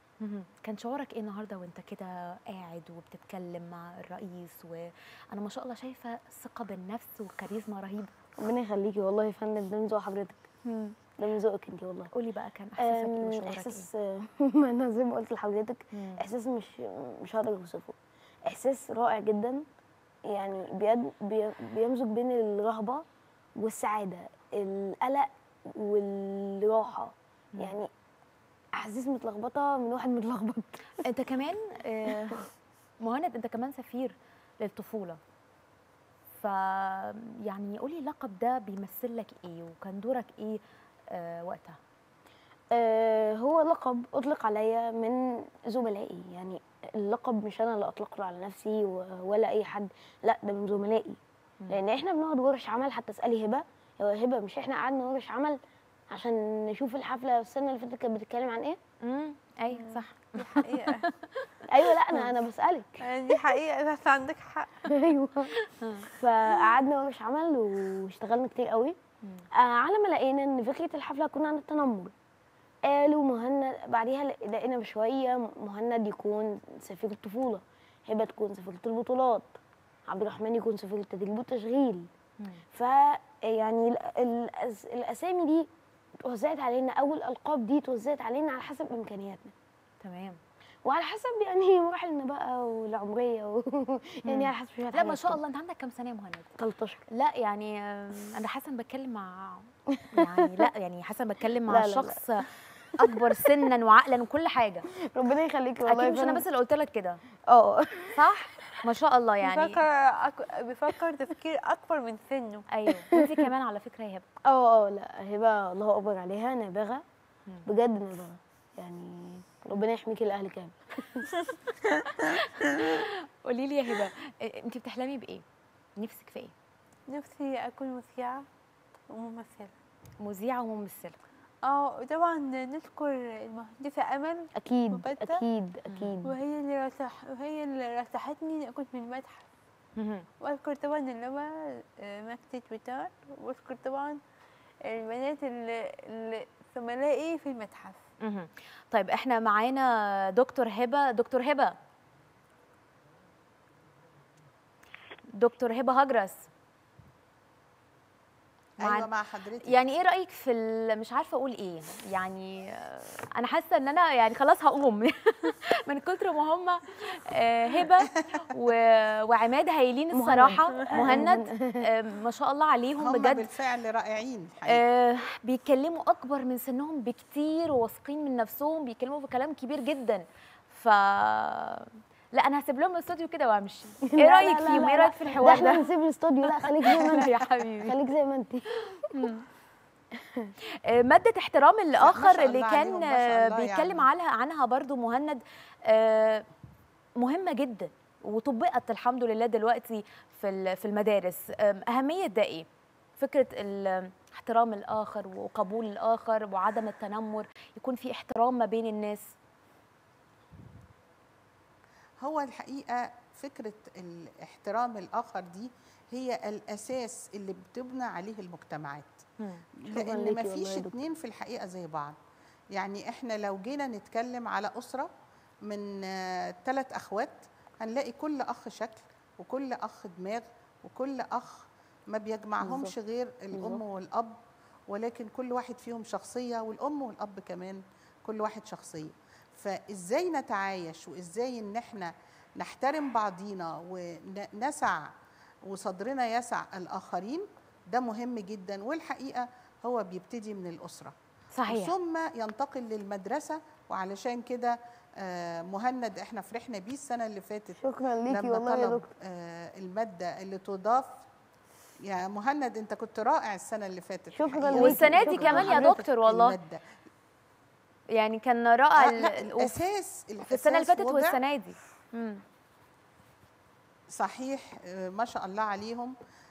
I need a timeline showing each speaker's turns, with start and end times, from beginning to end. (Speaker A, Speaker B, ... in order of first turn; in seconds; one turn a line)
Speaker A: 0.2-8.1
Speaker B: 8.4-10.5
Speaker A: 10.7-10.9
Speaker B: 11.2-12.1
Speaker A: 12.1-13.9
Speaker B: 12.8-17.9
Speaker B: 18.5-19.6
Speaker B: 20.3-23.0
Speaker B: 23.6-27.9
Speaker B: 28.8-31.0
Speaker A: 31.0-32.4
Speaker A: 33.0-35.2
Speaker A: 36.4-40.6
Speaker A: 41.1-41.8
Speaker B: 42.7-51.2
Speaker B: 51.7-55.6
Speaker B: 56.1-58.8
Speaker A: 59.0-61.0
Speaker C: 59.7-61.1
Speaker B: 61.7-63.0
Speaker C: 63.0-64.7
Speaker B: 65.0-65.5
Speaker A: 65.7-66.1
Speaker B: 66.2-69.0
Speaker B: 69.6-72.1
Speaker B: 72.9-79.5
Speaker B: 80.1-82.1
Speaker B: 82.7-85.7
Speaker B: 86.2-89.5
Speaker A: 90.0-90.4
Speaker B: 90.9-95.4
Speaker A: 94.3-96.5
Speaker B: 96.6-97.0
Speaker A: 97.1-102.4
Speaker B: 100.0-100.7
Speaker B: 101.7-102.3
Speaker A: 103.0-104.8
Speaker B: 105.1-106.5
Speaker A: 105.9-107.2
Speaker B: 107.5-108.2
Speaker A: 108.2-109.8
Speaker C: 109.4-112.7
Speaker A: 112.7-114.2
Speaker B: 114.5-117.0
Speaker B: 117.7-120.8
Speaker A: 122.8-125.4
Speaker A: 126.0-126.5
Speaker C: 127.1-128.4
Speaker C: 129.1-129.7
Speaker A: 130.2-131.2
Speaker C: 131.7-135.4
Speaker B: 134.6-136.3
Speaker A: 135.9-136.2
Speaker C: 136.2-139.5
Speaker A: 140.0-140.3
Speaker C: 140.4-144.2
Speaker C: 144.9-148.0
Speaker A: 148.2-151.8
Speaker A: 155.3-156.4
Speaker A: 158.8-159.1
Speaker D: 158.8-159.8
Speaker A: 159.6-173.4
Speaker B: 170.1-171.8
Speaker C: 170.8-171.2
Speaker D: 173.0-174.8
Speaker A: 174.7-185.9
Speaker B: 184.1-189.1
Speaker A: 186.6-187.9
Speaker A: 189.1-189.4
Speaker A: 190.9-196.5
Speaker D: 192.0-194.1
Speaker A: 197.2-202.7
Speaker A: 203.2-209.2
Speaker D: 212.2-219.2
Speaker A: 219.4-219.7
Speaker D: 219.8-222.2
Speaker B: 219.9-221.0
Speaker D: 222.7-225.1
Speaker D: 225.7-234.4
Speaker B: 232.6-232.9
Speaker B: 233.5-233.8
Speaker D: 234.9-245.1
Speaker D: 245.7-251.2
Speaker A: 251.5-251.9
Speaker D: 251.7-261.2
Speaker B: 257.8-259.1
Speaker D: 262.0-266.8
Speaker B: 264.3-265.9
Speaker A: 264.8-266.6
Speaker A: 268.1-269.8
Speaker D: 269.0-271.4
Speaker A: 270.5-272.4
Speaker D: 274.1-276.1